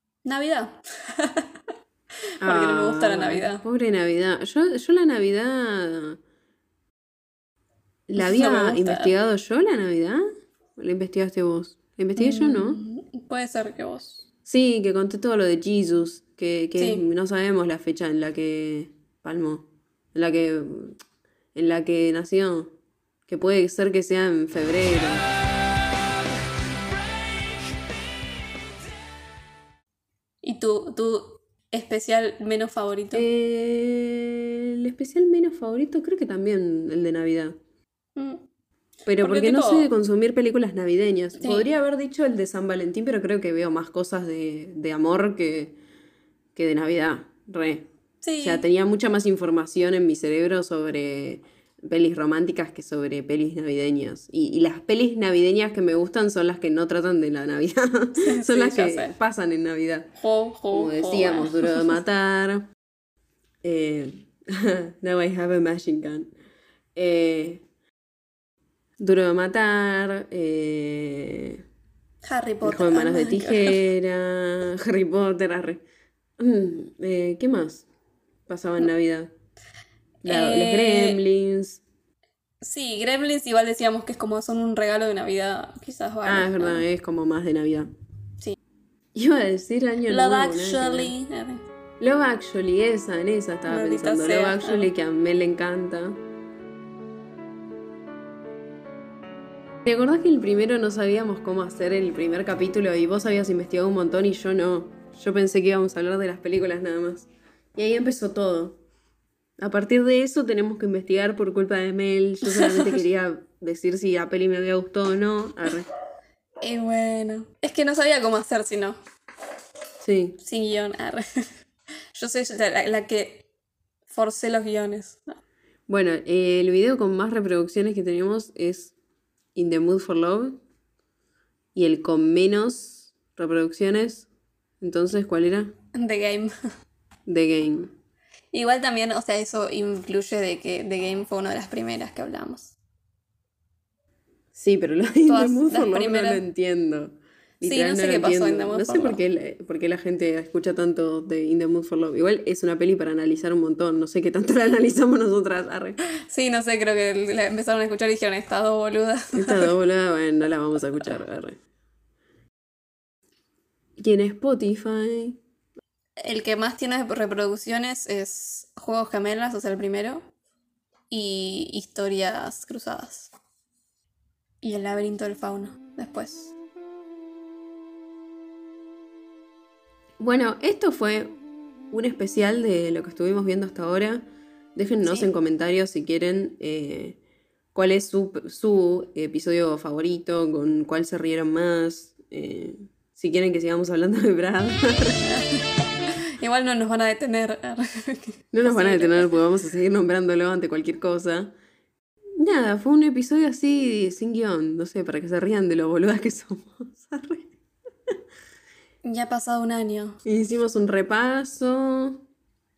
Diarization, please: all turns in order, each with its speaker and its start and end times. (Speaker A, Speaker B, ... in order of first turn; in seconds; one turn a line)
Speaker A: 0.2-1.5
Speaker B: 2.4-6.2
Speaker A: 2.4-3.6
Speaker B: 8.1-10.2
Speaker A: 8.2-9.1
Speaker B: 10.8-12.8
Speaker A: 12.2-14.2
Speaker B: 14.4-21.0
Speaker A: 16.8-17.0
Speaker B: 21.5-22.7
Speaker B: 23.3-25.3
Speaker A: 30.4-33.3
Speaker B: 33.1-37.5
Speaker A: 38.1-38.4
Speaker B: 39.0-45.8
Speaker A: 39.2-39.9
Speaker A: 41.4-41.7
Speaker B: 46.5-47.9
Speaker A: 48.2-48.6
Speaker B: 48.4-60.1
Speaker A: 58.2-59.2
Speaker A: 60.2-61.9
Speaker B: 60.7-62.7
Speaker B: 63.6-66.3
Speaker B: 66.9-67.6
Speaker B: 69.0-71.6
Speaker A: 72.2-73.8
Speaker B: 72.6-75.8
Speaker B: 76.4-77.8
Speaker B: 78.5-79.3
Speaker A: 80.2-81.2
Speaker B: 80.2-81.8
Speaker A: 82.6-86.8
Speaker B: 86.2-87.9
Speaker B: 89.1-91.1
Speaker A: 90.1-91.6
Speaker B: 92.0-96.2
Speaker A: 93.7-94.9
Speaker B: 99.8-108.8
Speaker B: 109.6-115.9
Speaker A: 112.5-112.9
Speaker A: 116.6-119.0
Speaker B: 120.0-120.4
Speaker A: 120.4-121.5
Speaker A: 122.1-123.5
Speaker A: 124.1-125.3
Speaker B: 125.9-128.9
Speaker B: 129.5-130.6
Speaker B: 131.7-134.3
Speaker B: 134.8-135.7
Speaker A: 135.9-136.5
Speaker B: 137.3-137.9
Speaker A: 138.5-142.7
Speaker B: 144.5-156.0
Speaker A: 145.3-146.4
Speaker A: 147.6-149.2
Speaker A: 156.3-159.7
Speaker B: 159.3-161.6
Speaker B: 164.0-165.4
Speaker A: 166.2-170.3
Speaker A: 171.1-173.3
Speaker A: 174.6-176.5
Speaker B: 180.2-181.3
Speaker B: 181.9-187.2
Speaker A: 185.0-185.3
Speaker B: 187.7-195.2
Speaker A: 195.2-195.6
Speaker A: 196.4-199.3
Speaker B: 198.5-201.5
Speaker B: 202.4-207.5
Speaker A: 209.0-210.2
Speaker B: 210.2-212.2